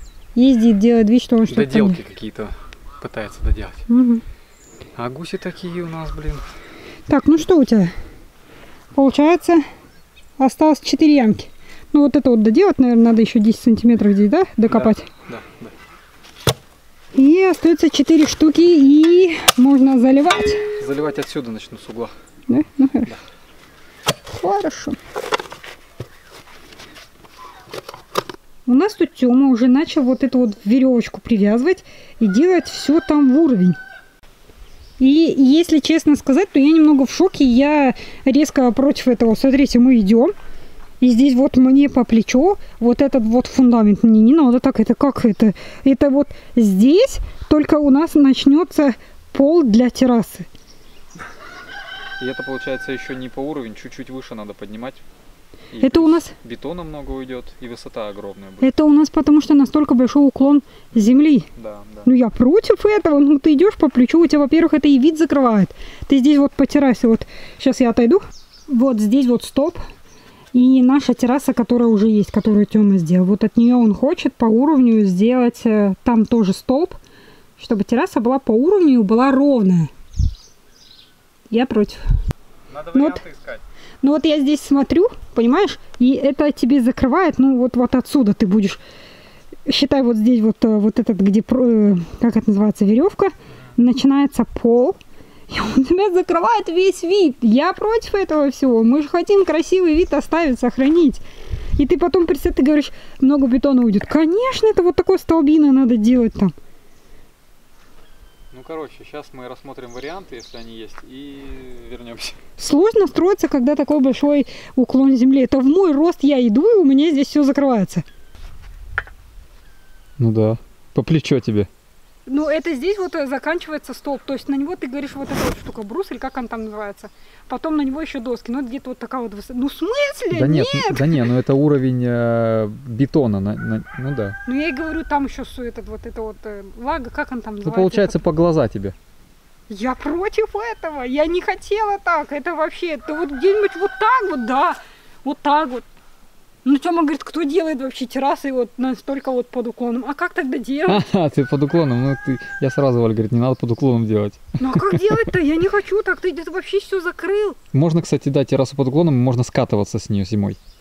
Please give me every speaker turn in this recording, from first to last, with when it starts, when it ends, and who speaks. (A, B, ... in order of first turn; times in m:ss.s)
0:00.3-0:02.0 A
0:01.5-0:03.8 B
0:03.9-0:04.2 A
0:05.0-0:06.4 B
0:07.1-0:07.9 A
0:08.9-0:09.7 A
0:10.4-0:15.1 A
0:14.7-0:15.7 B
0:17.1-0:20.7 A
0:20.8-0:22.2 B
0:22.5-0:23.1 A
0:24.3-0:25.0 A
0:28.6-0:33.8 A
0:35.0-0:40.3 A
0:41.0-0:50.5 A
0:52.2-0:55.0 B
0:55.7-0:58.7 B
0:55.8-0:56.3 A
0:58.6-1:01.5 A
1:01.6-1:02.1 B
1:02.0-1:09.9 A
1:10.5-1:17.0 A
1:17.6-1:19.9 A
1:21.5-1:22.0 A
1:22.7-1:23.6 B
1:22.9-1:23.2 A
1:24.0-1:28.8 A
1:29.6-1:35.0 A
1:35.5-1:41.2 A
1:41.8-1:46.5 A
1:48.5-1:52.4 B
1:52.6-1:58.0 A
2:00.2-2:01.7 B
2:02.2-2:11.3 A
2:10.3-2:14.4 B
2:14.4-2:18.2 A
2:17.6-2:19.0 B
2:19.7-2:25.8 A
2:26.6-2:31.0 A
2:30.9-2:35.3 B
2:34.6-2:37.6 A
2:37.7-2:40.6 B